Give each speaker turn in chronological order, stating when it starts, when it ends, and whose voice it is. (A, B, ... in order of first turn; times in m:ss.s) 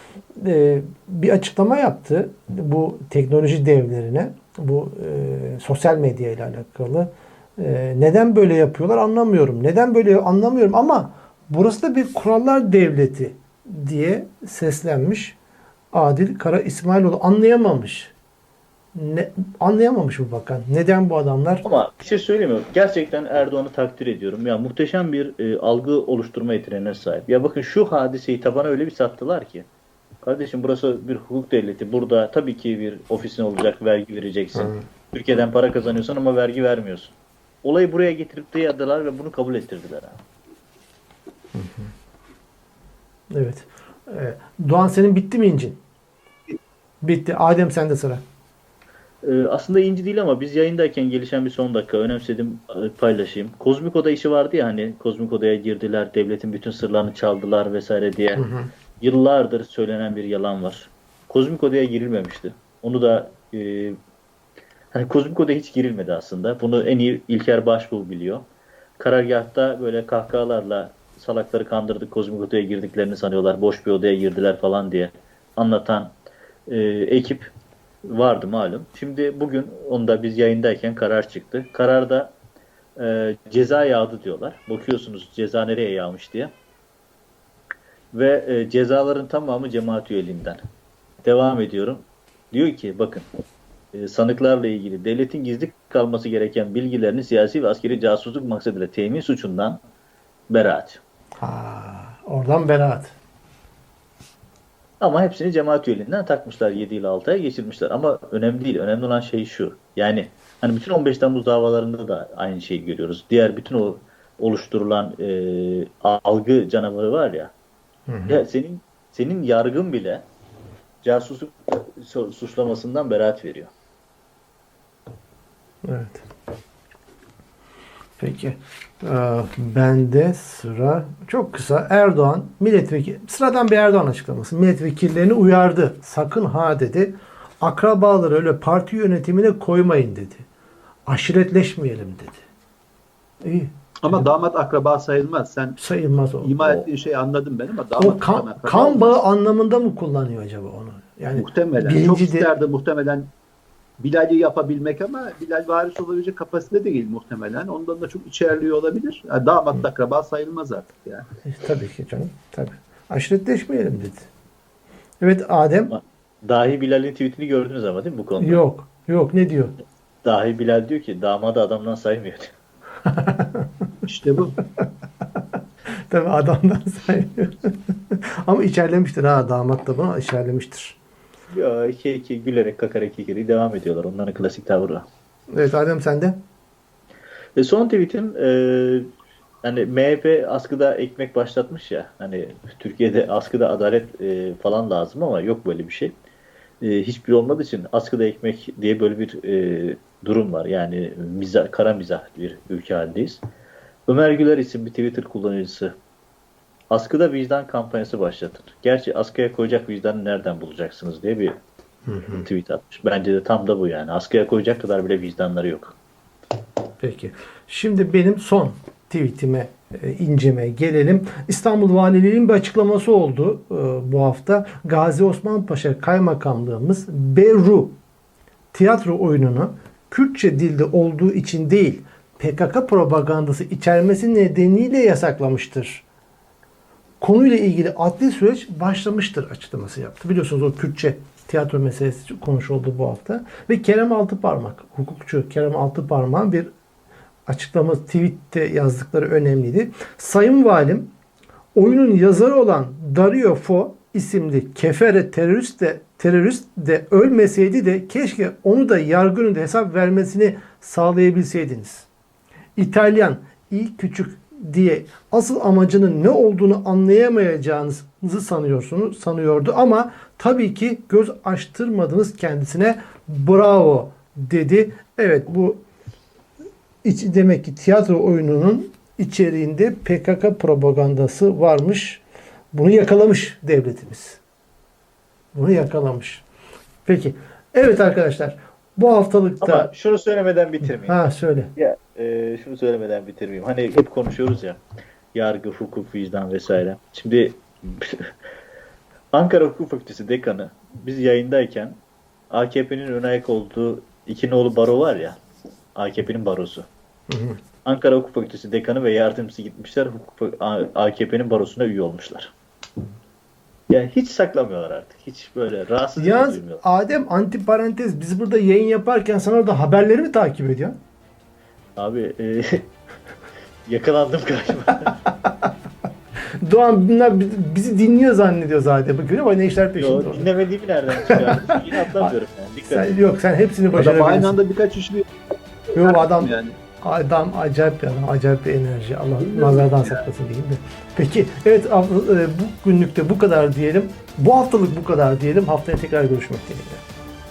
0:00.3-0:15.4 A
0:15.9-0:18.1 A
0:18.9-0:21.6 A
0:21.6-0:29.6 B
0:30.2-0:40.2 B
0:34.5-0:34.8 A
0:41.5-0:41.9 A
0:43.3-0:45.8 A
0:47.0-0:48.2 A
0:49.2-0:58.4 B
0:58.4-0:58.7 A
0:59.0-1:04.0 B
1:04.9-1:08.4 B
1:09.0-1:16.1 B
1:16.7-1:17.5 B
1:18.1-1:22.3 B
1:23.0-1:26.5 B
1:28.1-1:30.6 B
1:31.2-1:33.2 B
1:33.9-1:39.8 B
1:40.5-1:41.0 B
1:41.4-1:43.2 A
1:45.0-1:57.5 B
1:58.1-1:58.4 A
1:58.3-2:00.2 B
2:01.0-2:03.7 B
2:05.8-2:06.2 A
2:08.2-2:20.4 A
2:21.1-2:22.4 A
2:23.4-2:24.2 A
2:24.0-2:25.8 C
2:25.8-2:26.8 A
2:26.4-2:29.2 C
2:28.0-2:32.5 A
2:31.4-2:33.3 C
2:34.0-2:41.3 C
2:41.4-2:44.3 A
2:45.2-2:45.9 A
2:45.9-2:48.6 B
2:48.4-2:49.7 A
2:50.2-2:52.5 B
2:53.1-2:53.7 A
2:54.0-2:54.5 C
2:56.1-3:01.0 A
3:01.5-3:05.0 B
3:05.5-3:06.4 A
3:07.6-3:09.1 B
3:09.6-3:16.2 B
3:16.8-3:23.4 B
3:24.1-3:25.9 B
3:26.9-3:31.5 B
3:32.1-3:32.5 A
3:32.3-3:36.0 B
3:37.0-3:48.0 A
3:48.7-3:56.0 A
3:57.2-4:06.7 A
4:07.5-4:11.1 A
4:11.7-4:22.1 A
4:22.8-4:35.8 A
4:37.0-4:44.4 A
4:45.5-4:46.4 A
4:47.0-4:49.9 A
4:49.6-4:51.2 B
4:51.0-4:51.7 A
4:51.8-4:54.8 B
4:55.3-4:58.3 B
4:59.3-5:02.0 B
5:02.5-5:05.4 B
5:05.9-5:06.8 B
5:07.3-5:07.6 A
5:07.8-5:12.5 B
5:13.9-5:16.8 B
5:16.2-5:21.0 A
5:22.0-5:22.9 B
5:23.8-5:25.2 B
5:26.6-5:30.5 A
5:30.0-5:33.2 B
5:31.2-5:32.3 A
5:32.9-5:34.6 A
5:33.9-5:35.3 C
5:35.9-5:36.8 C
5:36.0-5:47.0 A
5:39.4-5:40.2 C